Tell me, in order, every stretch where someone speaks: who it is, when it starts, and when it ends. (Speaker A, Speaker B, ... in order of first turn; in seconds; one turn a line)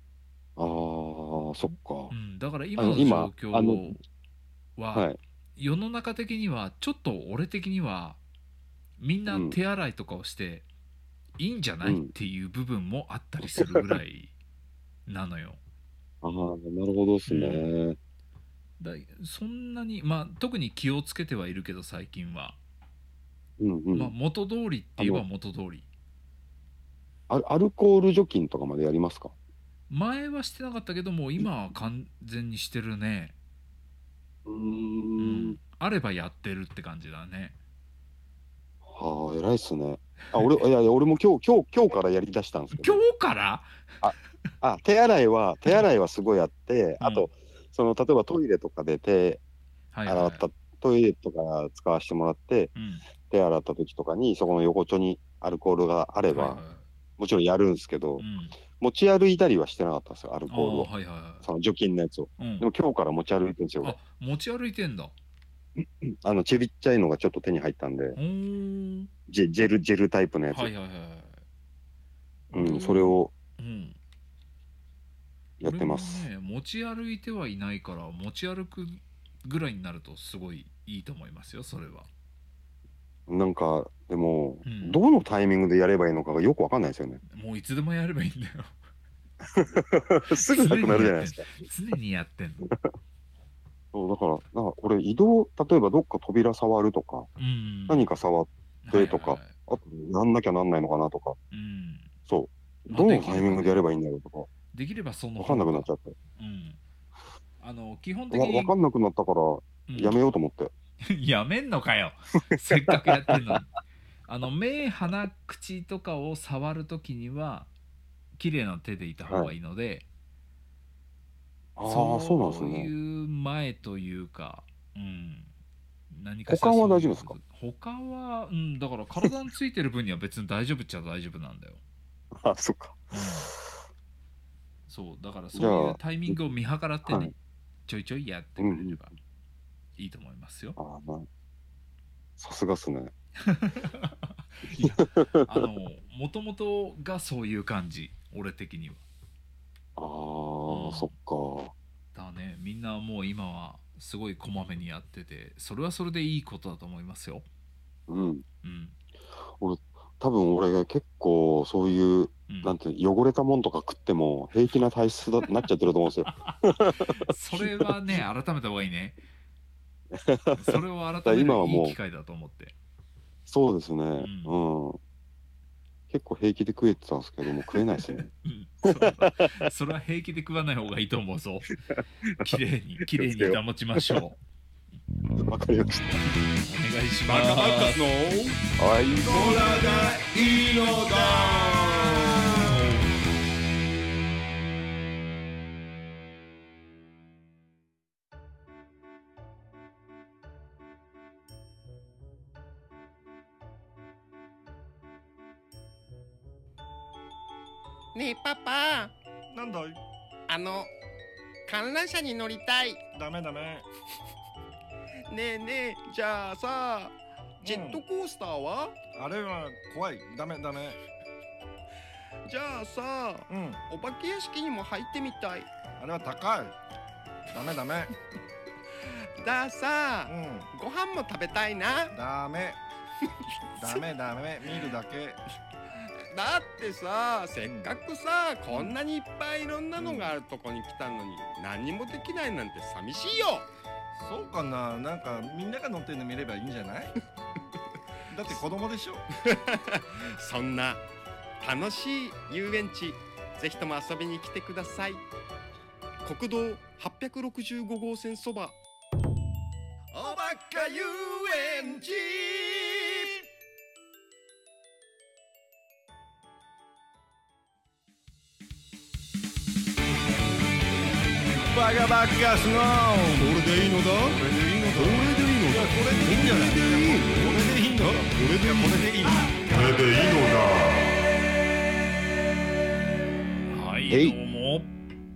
Speaker A: 0.6-2.1
Speaker B: 2.1-4.0
Speaker A: 2.8-3.9
Speaker B: 4.8-8.2
Speaker A: 4.9-5.2
Speaker B: 9.0-10.7
Speaker A: 9.3-9.6
Speaker B: 11.4-14.3
Speaker A: 11.8-12.1
Speaker A: 13.6-13.8
Speaker B: 15.1-15.6
Speaker A: 16.2-18.0
Speaker B: 17.3-17.7
Speaker B: 18.8-22.6
Speaker A: 23.6-24.1
Speaker B: 23.9-25.9
Speaker A: 27.3-29.3
Speaker B: 29.9-33.4
Speaker A: 34.5-35.6
Speaker B: 35.2-37.6
Speaker A: 38.9-43.0
Speaker B: 40.3-40.6
Speaker B: 42.7-43.8
Speaker A: 44.0-49.4
Speaker B: 47.0-47.3
Speaker B: 49.9-50.5
Speaker A: 50.1-52.7
Speaker B: 52.8-53.0
Speaker A: 53.3-56.6
Speaker B: 56.3-56.9
Speaker A: 57.2-58.2
Speaker B: 58.2-58.6
Speaker A: 58.8-64.0
Speaker B: 60.5-61.5
Speaker B: 62.4-62.7
Speaker B: 63.8-65.1
Speaker A: 65.8-68.2
Speaker B: 68.2-69.1
Speaker A: 69.3-70.7
Speaker B: 70.5-71.4
Speaker B: 72.5-74.0
Speaker A: 72.5-73.3
Speaker A: 75.6-76.3
Speaker B: 75.6-82.1
Speaker A: 83.3-87.2
Speaker B: 84.7-85.0
Speaker B: 87.3-88.8
Speaker A: 89.5-91.5
Speaker B: 90.4-92.7
Speaker A: 93.9-97.3
Speaker B: 97.4-98.1
Speaker A: 97.9-101.4
Speaker B: 98.8-99.5
Speaker B: 101.5-102.1
Speaker A: 102.3-104.5
Speaker B: 102.9-103.8
Speaker B: 104.7-106.8
Speaker A: 105.4-106.2
Speaker B: 107.6-108.8
Speaker A: 108.3-110.7
Speaker B: 109.9-110.2
Speaker B: 111.1-113.7
Speaker A: 112.9-113.3
Speaker B: 114.3-117.7
Speaker B: 118.4-120.1
Speaker A: 119.3-119.5
Speaker A: 121.8-122.9
Speaker B: 121.8-125.5
Speaker B: 126.1-131.8
Speaker A: 126.5-127.4
Speaker A: 132.3-133.0
Speaker B: 133.1-133.5
Speaker B: 134.9-137.3
Speaker A: 135.5-136.4
Speaker A: 137.1-137.3
Speaker B: 137.9-139.2
Speaker A: 138.6-139.0
Speaker B: 140.0-140.8
Speaker A: 140.8-141.3
Speaker A: 142.4-143.1
Speaker B: 143.5-149.0
Speaker A: 144.7-145.7
Speaker A: 150.0-151.7
Speaker B: 150.7-151.1
Speaker B: 152.1-157.4
Speaker A: 158.1-158.4
Speaker B: 158.6-159.0
Speaker A: 159.5-167.9
Speaker B: 162.5-162.8
Speaker B: 166.3-169.2
Speaker A: 170.1-172.0
Speaker B: 170.6-172.7
Speaker A: 173.5-175.0
Speaker B: 174.2-174.6
Speaker A: 176.1-178.3
Speaker B: 178.4-181.7
Speaker A: 178.9-179.5
Speaker B: 182.4-184.4
Speaker A: 183.1-184.2
Speaker A: 185.4-186.2
Speaker B: 186.7-188.1
Speaker C: 187.3-188.6
Speaker A: 188.8-189.6
Speaker D: 189.3-190.2
Speaker C: 189.3-192.3
Speaker B: 192.7-193.1
Speaker E: 208.1-209.1
Speaker D: 209.5-210.0
Speaker E: 210.5-210.9
Speaker E: 211.7-213.0
Speaker D: 213.2-213.9
Speaker E: 215.3-218.9
Speaker D: 217.6-218.0
Speaker D: 219.2-221.0
Speaker E: 222.5-225.7
Speaker D: 223.5-223.8
Speaker D: 226.0-226.7
Speaker D: 227.5-228.1
Speaker E: 229.4-232.1
Speaker D: 230.3-230.7
Speaker D: 232.1-232.8
Speaker D: 233.8-235.4
Speaker E: 236.3-243.7
Speaker D: 237.6-237.9
Speaker D: 240.0-240.3
Speaker D: 244.2-247.1
Speaker D: 248.3-249.2
Speaker E: 249.5-251.0
Speaker E: 251.6-255.2
Speaker E: 256.2-258.8
Speaker D: 260.1-263.4
Speaker D: 271.6-280.1
Speaker A: 273.4-274.4
Speaker A: 274.9-277.5
Speaker A: 278.6-279.0
Speaker A: 279.7-281.1
Speaker B: 283.7-284.9
Speaker A: 284.1-284.4